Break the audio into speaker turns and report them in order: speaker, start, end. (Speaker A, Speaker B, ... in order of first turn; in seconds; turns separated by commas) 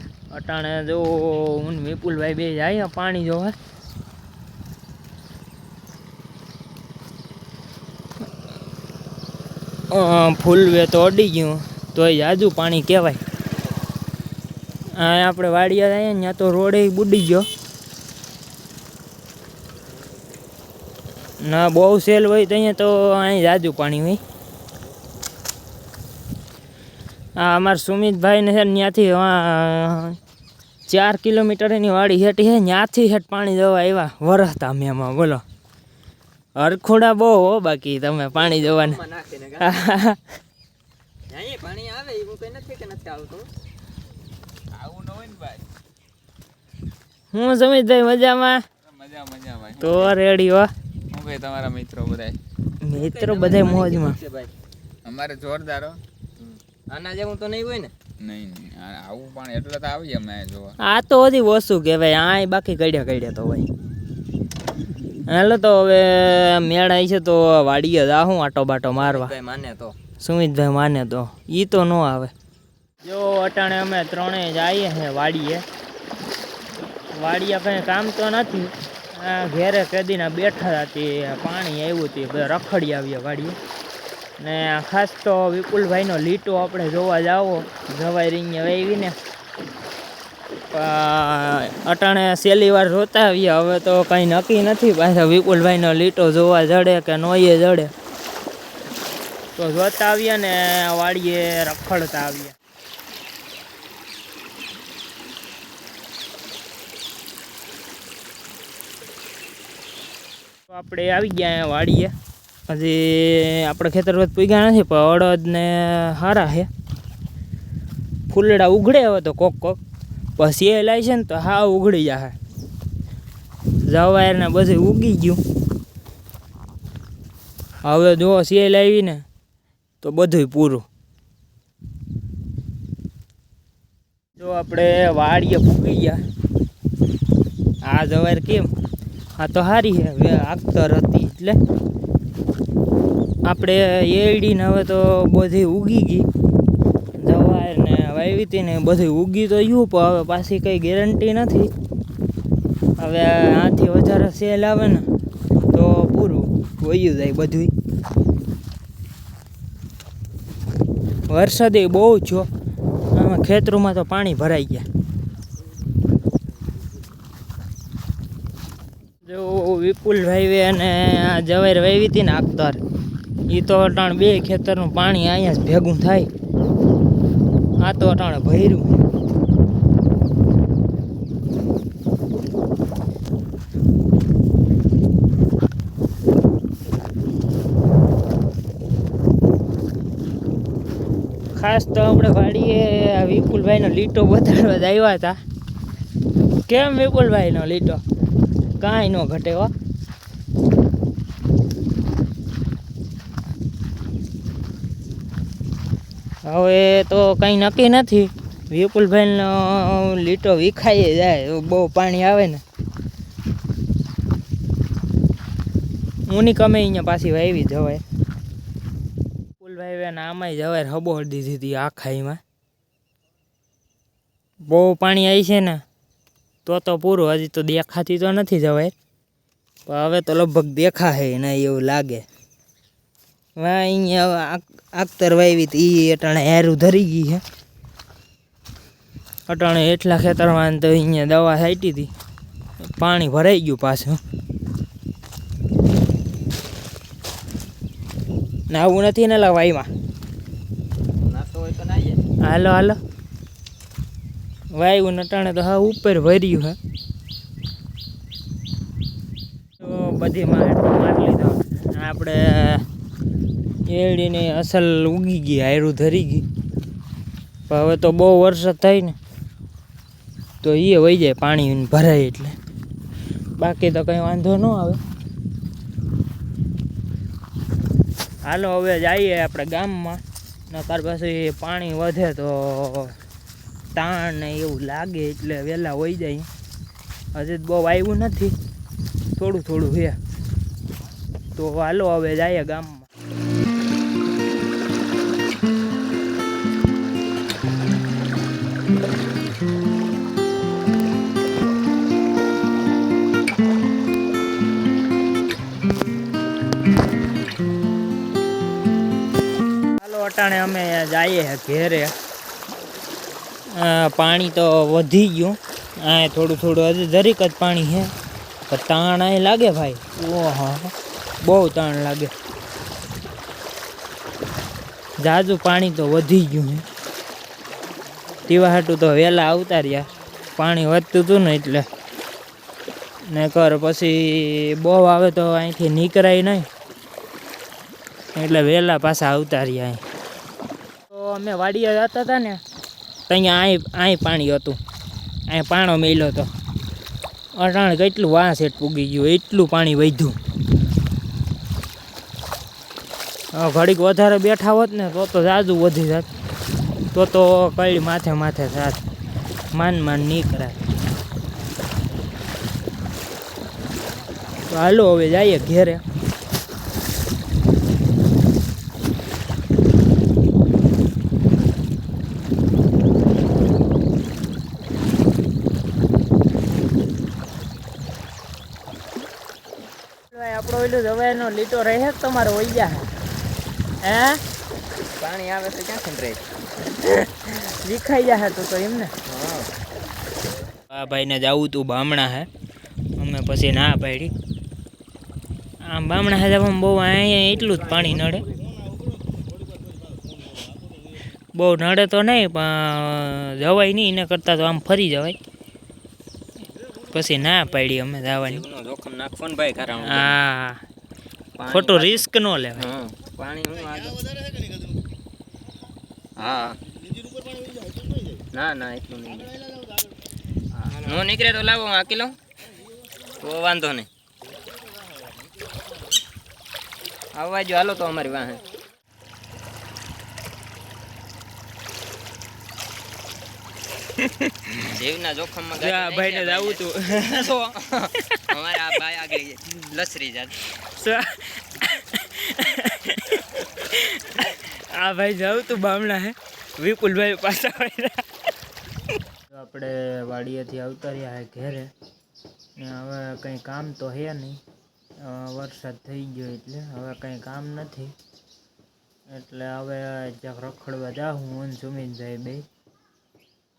Speaker A: 0.3-3.5, Speaker A: 9.9-13.2, Speaker A: 14.9-17.5, Speaker A: 21.4-24.2, Speaker A: 27.4-30.2, Speaker A: 30.9-35.4, Speaker A: 36.5-39.0, Speaker B: 38.3-39.7, Speaker A: 39.6-40.2, Speaker B: 41.3-43.5, Speaker C: 44.7-45.7, Speaker A: 47.3-48.6, Speaker C: 48.8-50.1, Speaker A: 49.8-50.7, Speaker C: 51.1-52.4, Speaker A: 52.8-54.2, Speaker B: 52.9-54.5, Speaker C: 55.0-56.0, Speaker B: 56.4-57.9, Speaker C: 58.2-60.8, Speaker A: 60.8-63.7, Speaker A: 65.3-69.3, Speaker B: 69.0-69.9, Speaker A: 70.2-72.3, Speaker A: 73.0-75.6, Speaker A: 77.1-83.6, Speaker A: 84.4-89.2, Speaker A: 90.7-97.9, Speaker A: 99.5-102.5, Speaker A: 110.7-112.1, Speaker A: 112.7-116.7, Speaker A: 118.3-119.8, Speaker A: 120.3-122.3, Speaker A: 123.8-125.4, Speaker A: 127.8-129.2, Speaker A: 130.0-130.8, Speaker A: 134.3-136.2, Speaker A: 137.8-138.7, Speaker A: 139.4-141.6, Speaker A: 143.4-146.3, Speaker A: 147.2-151.7, Speaker A: 153.0-155.1, Speaker A: 155.7-157.7, Speaker A: 161.3-162.5, Speaker A: 163.1-164.8, Speaker A: 169.2-172.8, Speaker A: 173.5-176.3, Speaker A: 177.8-179.0, Speaker A: 191.5-195.4, Speaker A: 196.7-198.0, Speaker A: 198.8-199.7, Speaker A: 206.4-212.6, Speaker A: 216.3-218.0, Speaker A: 219.6-222.4, Speaker A: 224.7-225.8, Speaker A: 226.6-228.9, Speaker A: 229.8-232.2, Speaker A: 233.6-237.4, Speaker A: 239.5-242.1, Speaker A: 243.0-244.2, Speaker A: 248.7-249.9, Speaker B: 251.2-252.2, Speaker A: 252.4-253.0, Speaker A: 254.7-256.8, Speaker A: 259.8-262.9, Speaker A: 263.8-266.4, Speaker A: 267.7-269.1, Speaker A: 270.6-272.6, Speaker A: 273.6-275.0, Speaker A: 278.4-283.2, Speaker A: 283.9-286.5, Speaker A: 287.3-288.5, Speaker A: 289.4-290.2, Speaker A: 291.5-293.1, Speaker A: 310.0-312.1, Speaker A: 313.6-318.1, Speaker A: 318.7-322.3, Speaker A: 325.2-326.9, Speaker A: 328.4-331.9, Speaker A: 333.2-336.7, Speaker A: 338.3-340.0, Speaker A: 341.1-342.6, Speaker A: 343.3-344.8, Speaker A: 345.5-346.5, Speaker A: 347.5-350.4, Speaker A: 353.5-356.3, Speaker A: 357.1-359.0, Speaker A: 359.7-360.8, Speaker A: 364.7-366.0, Speaker A: 380.3-383.1, Speaker A: 384.0-384.4, Speaker B: 385.1-386.4, Speaker A: 387.0-389.1, Speaker B: 389.2-389.7, Speaker A: 390.9-392.5, Speaker A: 393.1-394.3, Speaker A: 395.8-398.4, Speaker A: 401.5-405.4, Speaker A: 407.0-408.6, Speaker B: 408.4-410.4, Speaker A: 410.0-410.8, Speaker B: 411.6-414.6, Speaker A: 411.7-412.9, Speaker B: 416.4-416.8, Speaker B: 418.5-419.6, Speaker B: 420.8-422.4, Speaker B: 423.4-424.1, Speaker B: 427.3-428.6, Speaker B: 434.7-440.6, Speaker A: 435.8-437.7, Speaker A: 440.7-448.2, Speaker A: 449.5-451.9, Speaker A: 452.8-454.6, Speaker A: 455.2-458.1, Speaker A: 459.3-462.6